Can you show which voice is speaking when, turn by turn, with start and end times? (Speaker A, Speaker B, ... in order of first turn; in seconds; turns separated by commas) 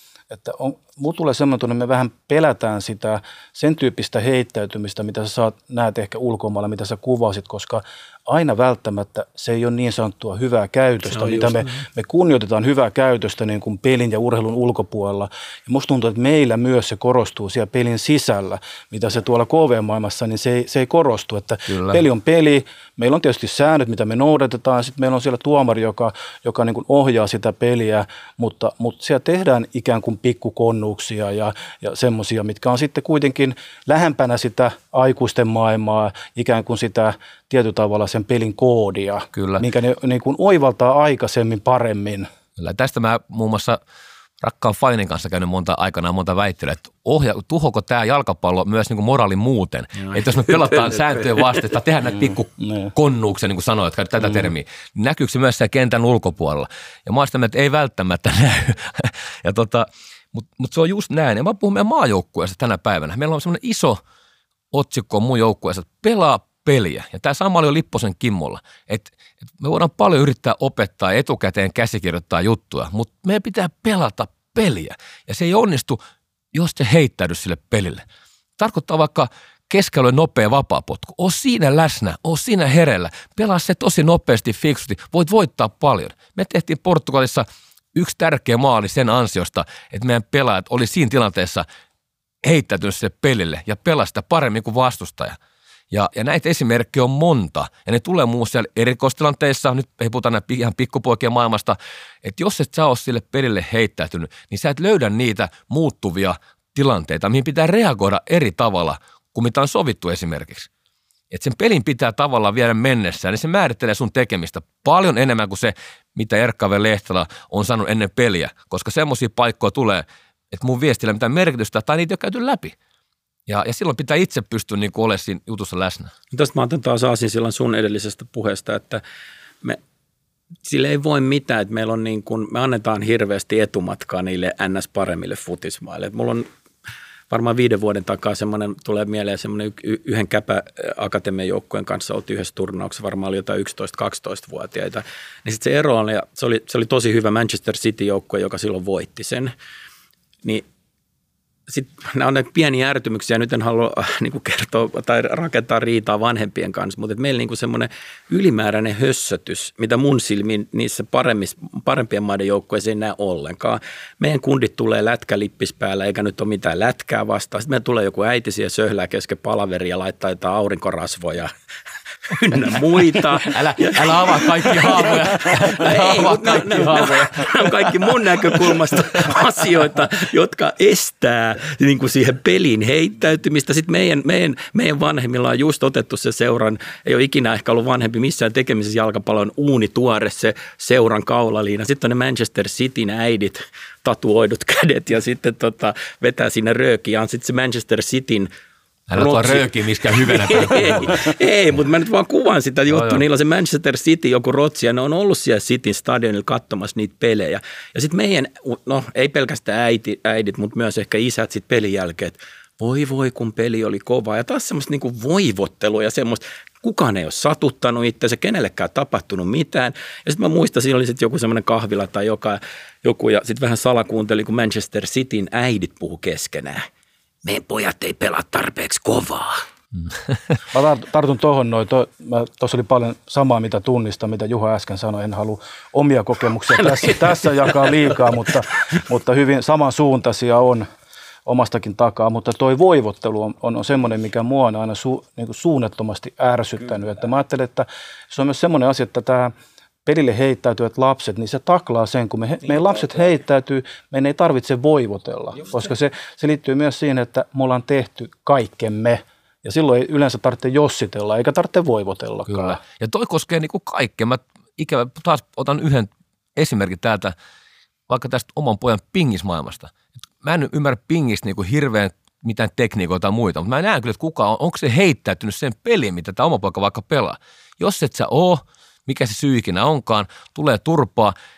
Speaker A: 0.3-42.3, Speaker B: 11.1-11.8, Speaker C: 21.7-22.0, Speaker C: 39.3-39.6, Speaker C: 42.6-43.8, Speaker C: 44.4-64.0, Speaker B: 50.0-51.2, Speaker A: 52.6-52.9, Speaker C: 64.7-76.0, Speaker C: 76.5-78.0, Speaker C: 78.6-91.6, Speaker C: 92.4-95.4, Speaker C: 95.9-110.7, Speaker C: 111.3-122.8, Speaker C: 123.5-126.1, Speaker B: 126.3-129.0, Speaker B: 130.6-136.5, Speaker B: 137.3-149.5, Speaker B: 151.7-171.5, Speaker B: 172.3-198.5, Speaker C: 173.4-177.7, Speaker C: 199.1-201.1, Speaker B: 199.1-226.8, Speaker C: 202.9-203.2, Speaker B: 227.4-229.6, Speaker A: 230.7-240.8, Speaker A: 241.4-249.5, Speaker A: 250.0-262.8, Speaker C: 262.5-267.3, Speaker C: 268.1-281.3